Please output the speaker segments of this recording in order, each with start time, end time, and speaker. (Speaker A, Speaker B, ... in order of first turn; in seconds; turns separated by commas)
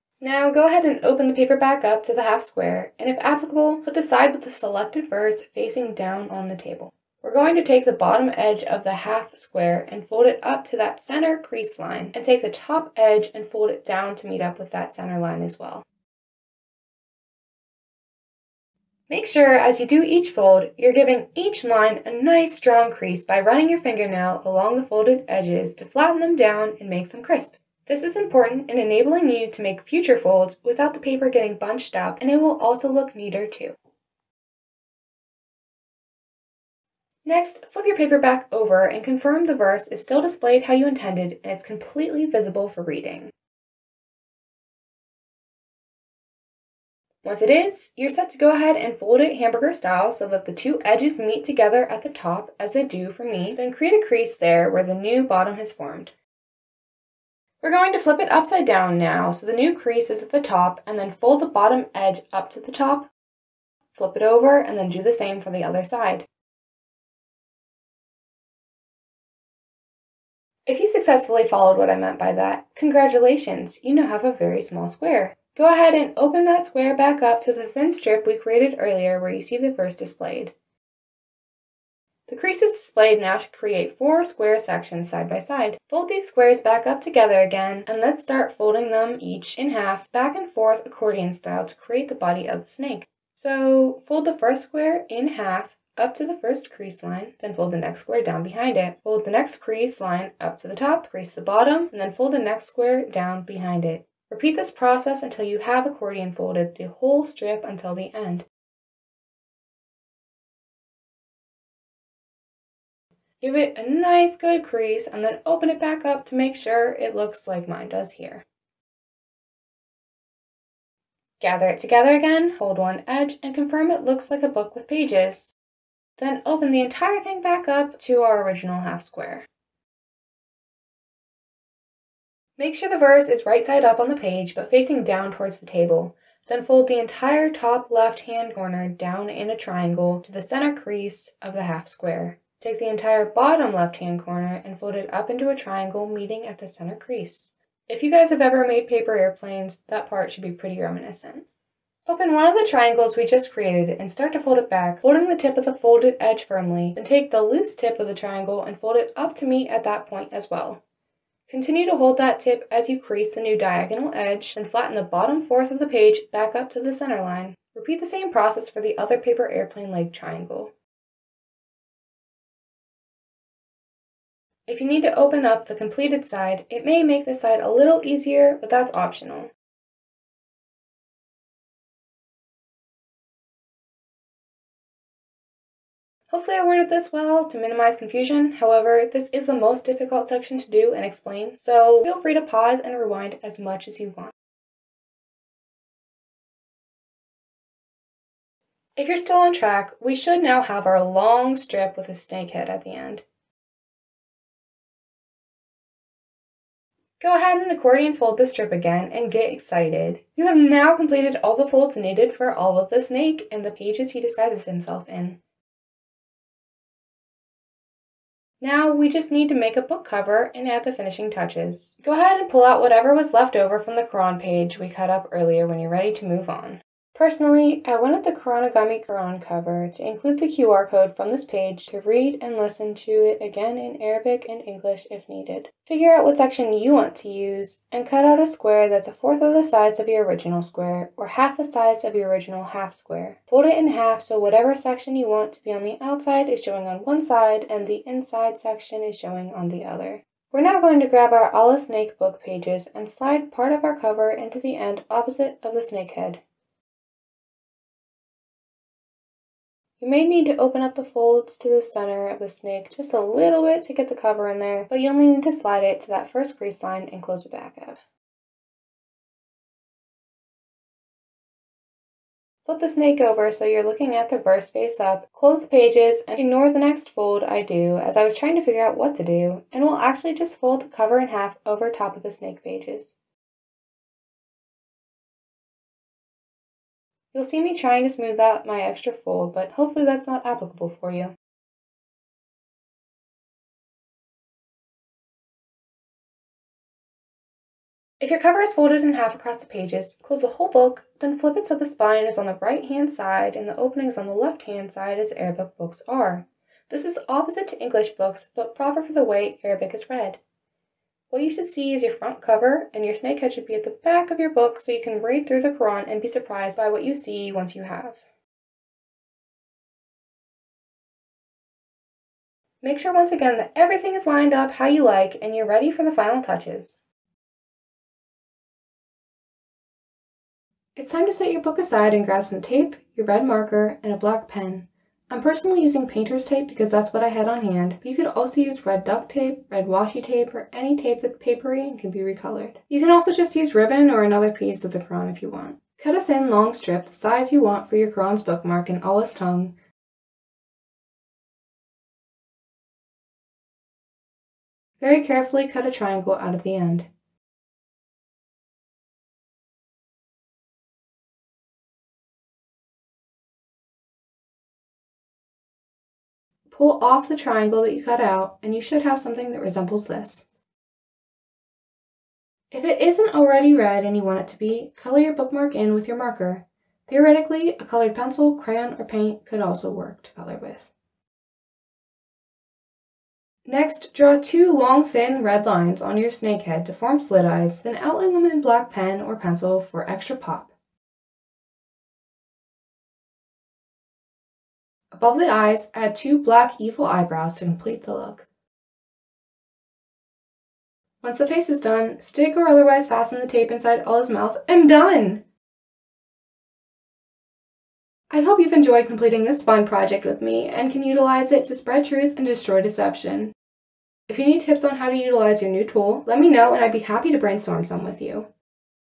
Speaker A: 0.2-15.8, Speaker A: 19.1-33.8, Speaker A: 37.2-43.3, Speaker A: 47.2-56.1, Speaker A: 57.6-63.1, Speaker A: 63.9-66.2, Speaker A: 70.7-80.5, Speaker A: 82.3-108.4, Speaker A: 113.4-118.4, Speaker A: 121.4-125.5, Speaker A: 126.2-129.5, Speaker A: 132.6-151.4, Speaker A: 152.1-160.8, Speaker A: 161.5-170.7, Speaker A: 174.7-179.5, Speaker A: 186.3-194.3, Speaker A: 199.0-203.2, Speaker A: 207.2-215.4, Speaker A: 218.6-256.4, Speaker A: 260.0-268.0, Speaker A: 272.6-283.1, Speaker A: 287.3-291.3, Speaker A: 298.2-310.4, Speaker A: 311.3-318.2, Speaker A: 322.8-327.0, Speaker A: 330.9-349.7, Speaker A: 355.0-357.1, Speaker A: 366.7-370.4, Speaker A: 372.7-380.9, Speaker A: 383.6-390.7, Speaker A: 395.1-398.4, Speaker A: 401.2-405.4, Speaker A: 408.3-413.5, Speaker A: 414.3-418.5